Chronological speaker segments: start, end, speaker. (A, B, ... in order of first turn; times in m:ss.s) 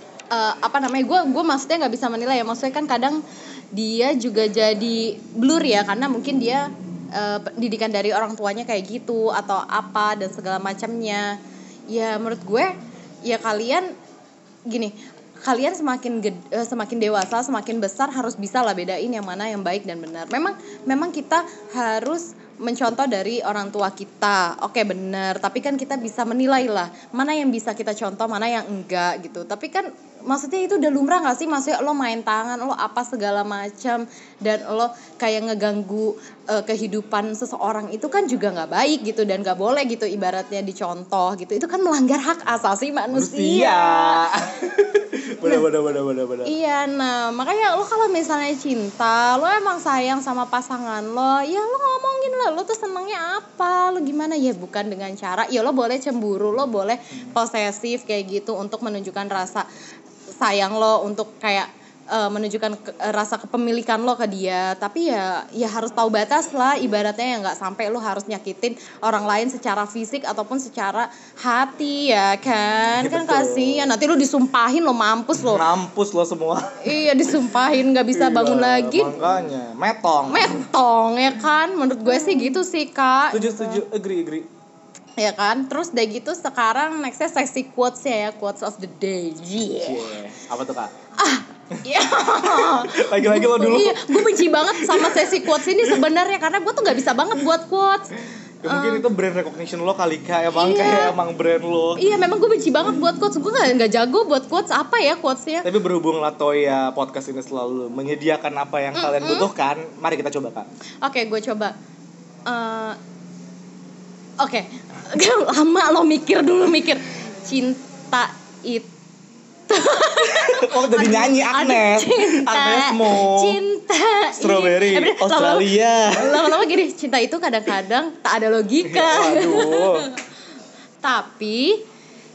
0:00.3-0:03.2 A
0:03.7-0:11.4 A
0:11.9-0:12.7 A
0:13.2-0:13.9 A
0:14.7-0:44.5 A
0:43.1-0:46.5 B
0:46.4-0:59.7 A
1:00.4-1:15.6 A
1:12.5-1:13.9 B
1:15.4-1:16.8 B
1:16.8-1:19.2 A
1:18.1-1:20.6 B
1:20.3-1:23.8 A
1:23.3-1:24.5 B
1:25.2-1:30.1 A
1:29.8-1:30.9 B
1:31.2-1:38.1 A
1:31.9-1:36.1 B
1:38.6-1:42.0 B
1:38.6-1:39.0 A
1:40.5-1:41.2 A
1:42.0-1:45.7 A
1:45.6-1:50.7 B
1:48.9-1:49.5 A
1:51.0-1:51.7 A
1:52.5-1:53.0 A
1:54.4-1:58.9 A
1:59.7-2:10.2 A
2:00.3-2:03.6 B
2:04.4-2:06.7 B
2:08.8-2:10.1 B
2:11.0-2:11.8 A